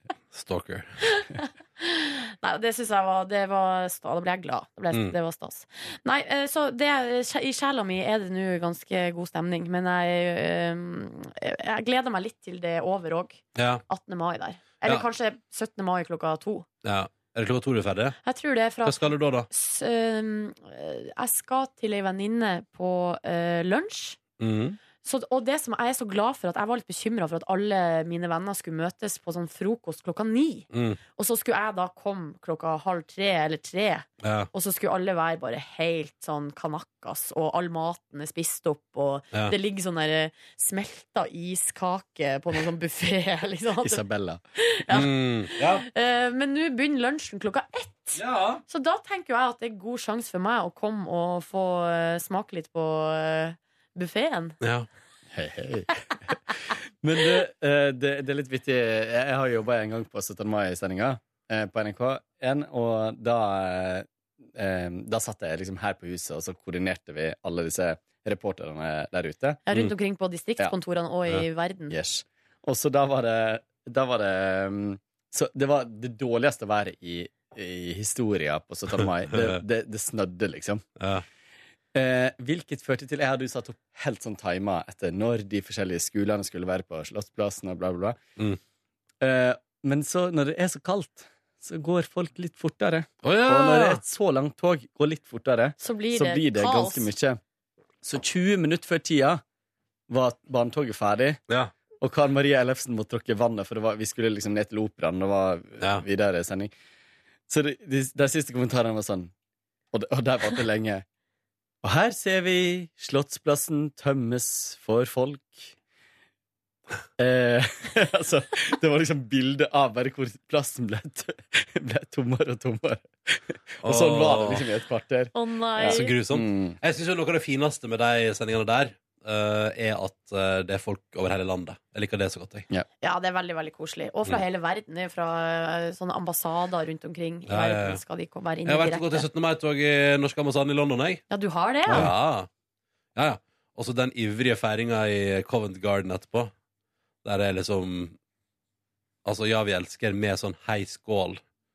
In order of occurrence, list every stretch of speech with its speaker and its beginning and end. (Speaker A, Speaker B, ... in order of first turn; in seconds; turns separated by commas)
Speaker A: 0.3-1.0, Speaker B: 1.0-16.6, Speaker A: 4.9-5.2, Speaker A: 13.5-13.8, Speaker A: 16.8-18.2, Speaker B: 18.2-24.2, Speaker A: 18.8-19.5, Speaker A: 24.4-24.8, Speaker B: 25.0-44.0, Speaker A: 30.7-31.0, Speaker A: 34.2-34.5, Speaker C: 43.8-44.4, Speaker B: 44.6-54.6, Speaker A: 44.9-45.8, Speaker A: 48.1-48.6, Speaker A: 54.6-54.9, Speaker C: 55.3-56.4, Speaker C: 57.0-69.6, Speaker B: 69.7-71.9, Speaker C: 71.9-80.8, Speaker A: 79.3-79.6, Speaker A: 81.0-81.2, Speaker C: 81.9-88.2, Speaker C: 89.2-97.4, Speaker A: 93.2-94.0, Speaker B: 95.8-97.1, Speaker C: 98.0-99.4, Speaker C: 100.1-101.4, Speaker C: 102.0-106.7, Speaker A: 105.8-106.0, Speaker C: 107.5-109.3, Speaker C: 109.9-111.0, Speaker C: 111.8-115.7, Speaker C: 117.2-126.8, Speaker A: 123.8-124.7, Speaker B: 125.3-126.1, Speaker A: 125.8-132.7, Speaker B: 133.0-139.3, Speaker A: 137.5-138.0, Speaker A: 138.7-141.2, Speaker B: 141.3-142.1, Speaker C: 141.9-142.1, Speaker A: 141.9-142.5, Speaker A: 143.2-146.5, Speaker A: 147.2-148.2, Speaker A: 149.2-151.4